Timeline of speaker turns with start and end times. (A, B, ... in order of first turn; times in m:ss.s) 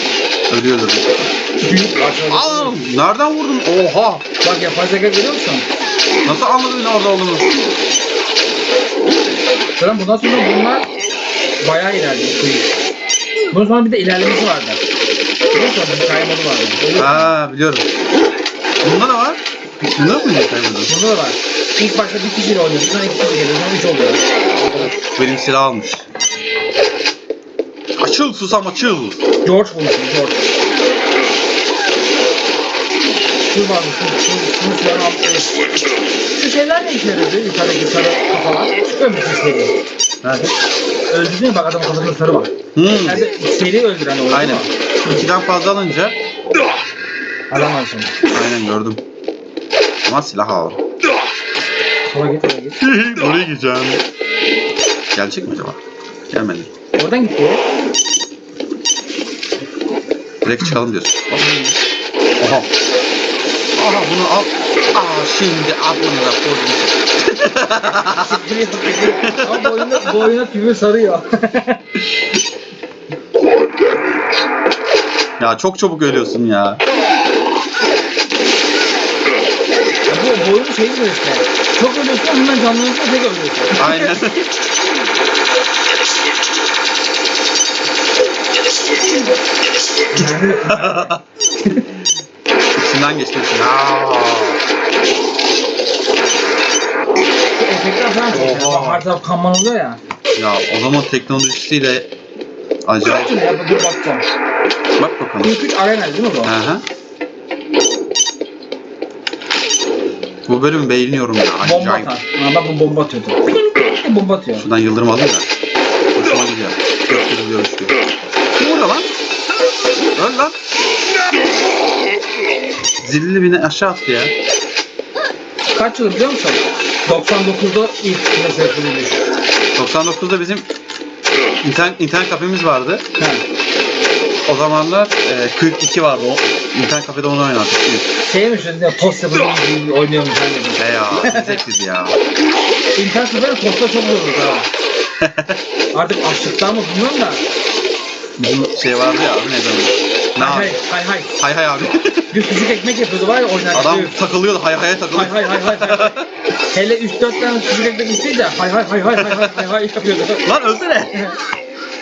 0:00.5-0:01.2 A
0:01.6-0:02.8 B
0:02.3-0:04.2 A
0:04.4-0:05.6 B
0:06.2-0:07.5 A
0:09.8-0:10.9 B
0:11.6-0:12.7 B
0:13.5-0:14.8 B
0:15.5-0:17.3 B
0:17.0-0:17.9 A
0:18.8-0:20.9 A
0:20.9-0:24.9 B
0:24.9-0:26.1 A
0:28.0-0:29.2 A
0:29.4-0:30.4 B
0:33.5-0:35.6 B
0:36.3-0:39.7 B
0:40.2-0:40.5 A
0:41.1-0:42.5 B
0:42.7-0:43.2 A
0:43.0-0:44.7 B
0:44.3-0:46.2 A
0:47.5-0:48.2 B
0:48.3-0:49.0 A
0:50.0-0:50.8 A
0:52.1-0:52.8 B
0:52.8-0:54.0 A
0:55.1-0:55.8 A
0:56.3-0:56.7 A
0:57.0-0:57.6 B
1:00.4-1:01.7 A
1:02.4-1:02.7 A
1:03.8-1:08.3 A
1:08.1-1:11.8 B
1:09.2-1:10.1 A
1:15.4-1:16.8 A
1:20.1-1:24.1 B
1:23.8-1:24.5 A
1:30.1-1:31.1 B
1:30.5-1:31.2 A
1:32.8-1:34.6 A
1:37.5-1:40.0 B
1:38.3-1:39.0 A
1:40.4-1:42.1 A
1:42.8-1:43.3 A
1:43.0-1:44.2 B
1:45.0-1:45.5 A
1:45.4-1:46.5 B
1:46.4-1:46.8 A
1:50.5-1:52.1 A
1:51.6-1:54.6 B
1:54.6-1:55.5 A
1:56.2-1:57.9 A
1:58.5-1:59.1 A
2:00.2-2:00.6 A
2:03.0-2:04.3 A
2:05.7-2:09.3 B
2:09.7-2:10.7 A
2:11.6-2:13.0 A
2:13.2-2:13.4 B
2:14.5-2:18.1 A
2:18.2-2:21.6 B
2:20.8-2:22.2 A
2:23.0-2:24.7 B
2:25.2-2:25.6 A
2:25.9-2:27.4 B
2:28.4-2:30.8 A
2:30.4-2:31.3 B
2:31.4-2:32.3 A
2:32.3-2:34.2 B
2:33.7-2:36.2 A
2:35.1-2:36.2 B
2:36.7-2:40.5 B
2:39.2-2:39.6 A
2:40.4-2:41.3 A